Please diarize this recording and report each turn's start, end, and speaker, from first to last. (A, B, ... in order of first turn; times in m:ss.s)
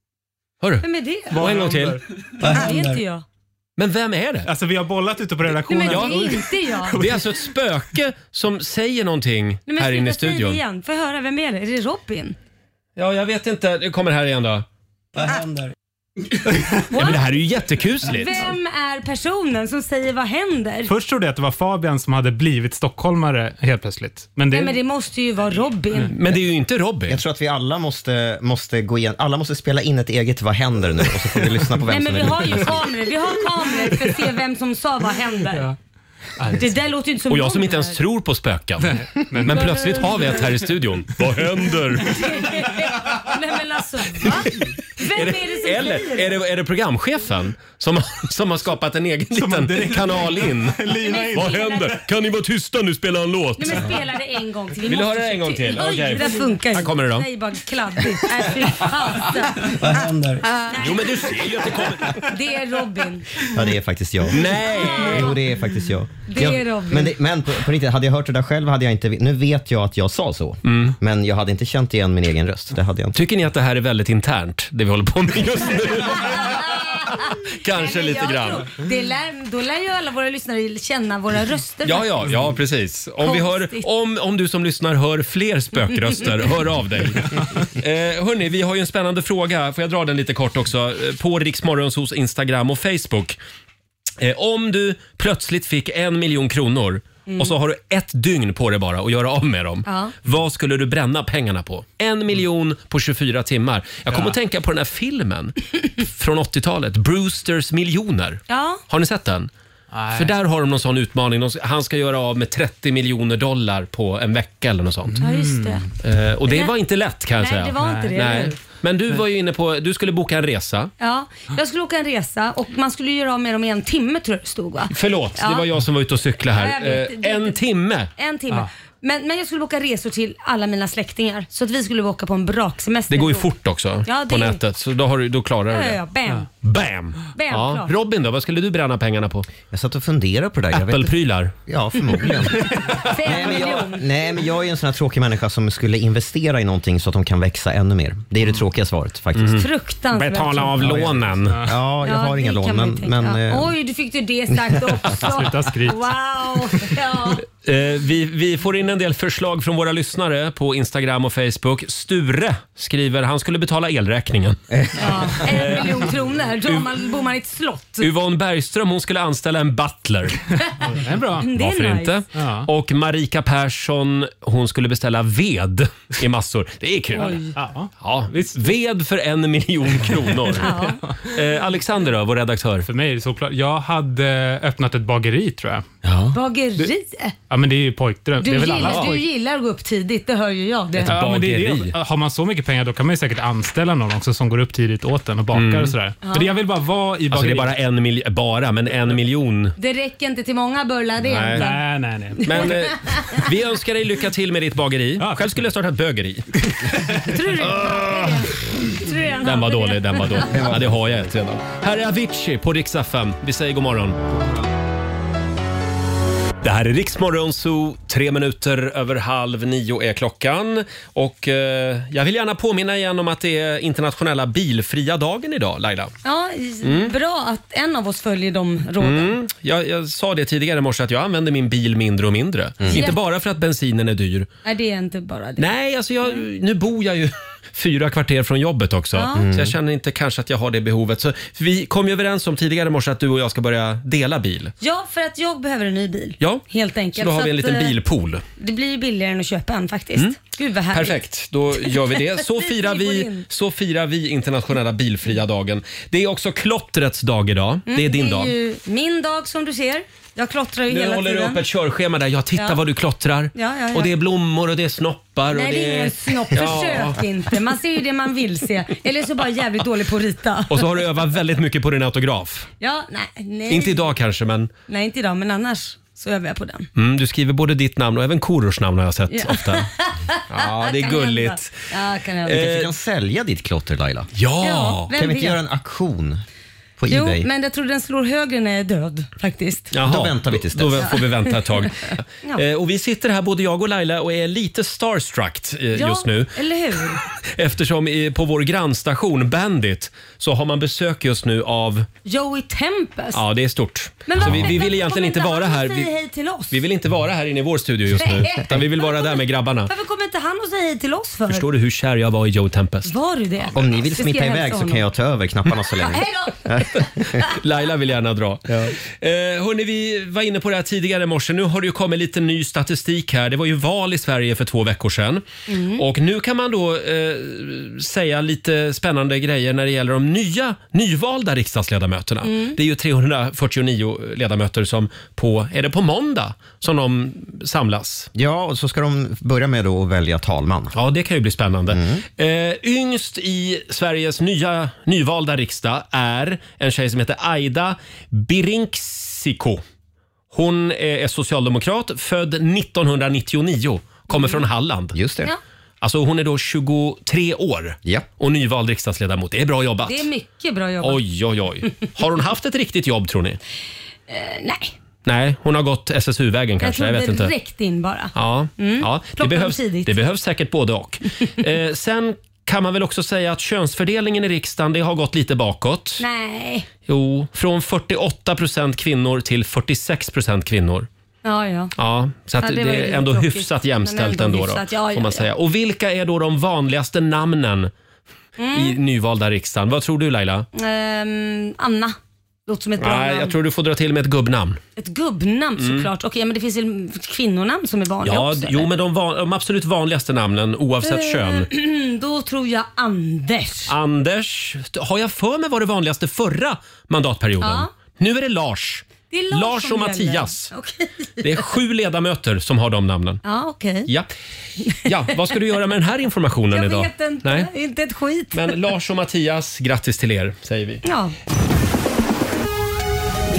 0:00.6-0:02.0 A
0:00.8-0:01.6 B
0:01.3-0:02.0 C
0:02.4-0:03.2 B
0:02.4-0:02.9 D
0:03.8-0:04.5 A
0:04.4-0:07.5 C
0:05.7-0:07.0 B
0:05.9-0:06.3 A
0:07.0-0:10.6 A
0:09.7-0:12.4 B
0:13.0-0:14.6 A
0:16.9-0:17.2 B
0:16.9-0:18.4 A
0:18.0-0:20.9 B
0:20.9-0:24.8 C
0:24.5-0:26.1 B
0:26.1-0:27.2 A
0:27.1-0:32.9 D
0:31.9-0:35.7 B
0:36.4-0:36.7 C
0:36.5-0:38.0 B
0:37.3-0:42.5 A
0:38.8-0:39.9 C
0:39.4-0:40.5 B
0:42.0-0:46.3 B
0:44.2-0:44.5 A
0:45.1-0:54.0 A
0:49.3-0:51.9 C
0:51.0-0:52.0 B
0:53.6-0:59.7 B
0:54.9-0:57.3 A
0:59.8-1:00.4 D
1:00.7-1:01.1 B
1:00.8-1:02.2 A
1:02.1-1:03.3 B
1:03.5-1:13.2 D
1:04.3-1:05.4 A
1:04.8-1:05.2 B
1:06.3-1:07.2 B
1:10.6-1:10.9 A
1:13.1-1:18.7 A
1:16.1-1:22.1 B
1:21.8-1:33.4 A
1:23.2-1:23.8 B
1:34.2-1:49.5 A
1:37.3-1:37.5 B
1:39.8-1:40.1 B
1:44.1-1:44.3 C
1:48.5-1:48.8 B
1:49.9-1:50.3 C
1:50.1-1:55.2 A
1:55.1-1:55.9 C
1:55.2-1:55.8 B
1:56.0-2:00.9 A
1:57.4-1:58.5 B
1:57.8-1:58.1 C
2:01.0-2:05.6 B
2:04.9-2:08.1 A
2:06.5-2:07.6 B
2:08.2-2:13.4 B
2:13.1-2:16.0 A
2:14.0-2:14.6 B
2:15.7-2:16.5 B
2:16.6-2:19.5 A
2:17.3-2:17.9 B
2:19.7-2:21.1 D
2:20.7-2:21.5 A
2:21.6-2:29.6 D
2:23.0-2:24.0 B
2:29.3-2:29.6 A
2:29.5-2:30.8 B
2:30.2-2:31.6 A
2:30.8-2:31.7 C
2:31.6-2:33.7 D
2:32.0-2:37.4 B
2:35.2-2:36.1 C
2:37.6-2:47.0 A
2:45.0-2:48.1 B
2:48.0-2:50.4 A
2:50.8-2:51.5 C
2:51.4-2:52.1 B
2:51.4-2:57.4 A
2:52.3-2:52.7 C
2:57.2-2:57.5 B
2:57.2-2:58.5 C
2:58.0-3:02.9 A
3:00.6-3:01.0 B
3:02.8-3:05.9 C
3:06.3-3:07.3 B
3:07.5-3:09.2 C
3:08.4-3:11.2 B
3:08.7-3:09.1 A
3:11.0-3:11.9 A
3:11.0-3:17.8 C
3:15.5-3:16.0 A
3:16.2-3:16.6 B
3:17.3-3:19.7 A
3:19.8-3:21.8 B
3:21.2-3:21.7 A
3:21.5-3:22.7 C
3:22.4-3:23.4 B
3:22.4-3:26.5 A
3:25.2-3:25.6 C
3:27.1-3:27.4 C
3:27.2-3:30.7 B
3:27.6-3:28.4 A
3:29.4-3:34.2 A
3:30.6-3:30.9 D
3:36.6-3:46.1 A
3:46.2-3:49.3 B
3:46.8-3:47.1 A
3:49.0-3:54.5 A
3:52.8-3:53.1 D
3:52.9-3:53.2 B
3:54.6-3:55.7 B
3:55.6-4:04.7 A
3:59.1-3:59.5 B
3:59.3-3:59.8 D
4:04.8-4:07.9 B
4:06.4-4:08.4 A
4:08.6-4:11.2 B
4:10.9-4:18.5 A
4:11.8-4:13.4 B
4:17.9-4:21.6 B
4:20.9-4:27.2 A
4:23.5-4:24.1 B
4:25.5-4:30.8 B
4:30.7-4:32.7 A
4:32.8-4:34.1 B
4:33.7-4:34.7 A
4:34.9-4:36.9 B
4:37.0-4:39.9 A
4:39.3-4:42.6 B
4:40.5-4:41.8 A
4:42.4-4:42.9 A
4:42.5-4:44.3 D
4:44.3-4:45.1 A
4:44.6-4:45.6 B
4:45.1-4:46.4 D
4:47.0-4:47.5 D
4:47.1-4:49.9 B
4:49.9-4:56.6 A
4:50.0-4:51.1 D
4:51.0-4:52.6 B
4:55.9-4:57.2 B
4:57.2-5:02.1 A
5:02.2-5:03.4 B
5:03.3-5:06.1 A
5:04.3-5:06.8 B
5:06.7-5:09.9 A
5:08.2-5:11.6 B
5:11.5-5:13.1 A
5:13.0-5:15.0 B
5:13.7-5:17.2 D
5:16.0-5:17.5 B
5:17.4-5:25.4 A
5:25.7-5:26.0 B
5:26.0-5:38.3 A
5:32.4-5:32.8 B
5:38.3-5:40.9 D
5:40.9-5:49.8 A
5:41.9-5:42.2 D
5:50.5-5:55.2 A
5:54.3-5:54.6 B
5:55.1-5:55.5 D
5:56.0-6:00.3 A
6:00.0-6:01.2 B
6:01.0-6:03.6 A
6:04.3-6:04.9 B
6:05.2-6:07.5 A
6:06.8-6:10.1 B
6:08.3-6:16.2 A
6:16.2-6:16.9 B
6:17.1-6:21.1 A
6:21.4-6:21.9 B
6:22.0-6:27.9 A
6:22.6-6:25.5 B
6:28.6-6:29.0 B
6:28.7-6:30.7 A
6:30.7-6:32.2 B
6:32.7-6:33.5 B
6:33.0-6:34.8 A
6:35.0-6:38.8 B
6:35.8-6:36.1 A
6:38.2-6:41.7 A
6:41.0-6:43.9 B
6:43.9-6:50.7 A
6:47.6-6:47.9 B
6:49.3-6:51.6 B
6:51.4-6:53.4 A
6:53.4-6:54.1 B
6:54.8-6:55.4 B
6:55.0-6:57.7 A
6:56.7-6:58.8 B
6:58.5-7:01.0 A
7:01.0-7:01.3 B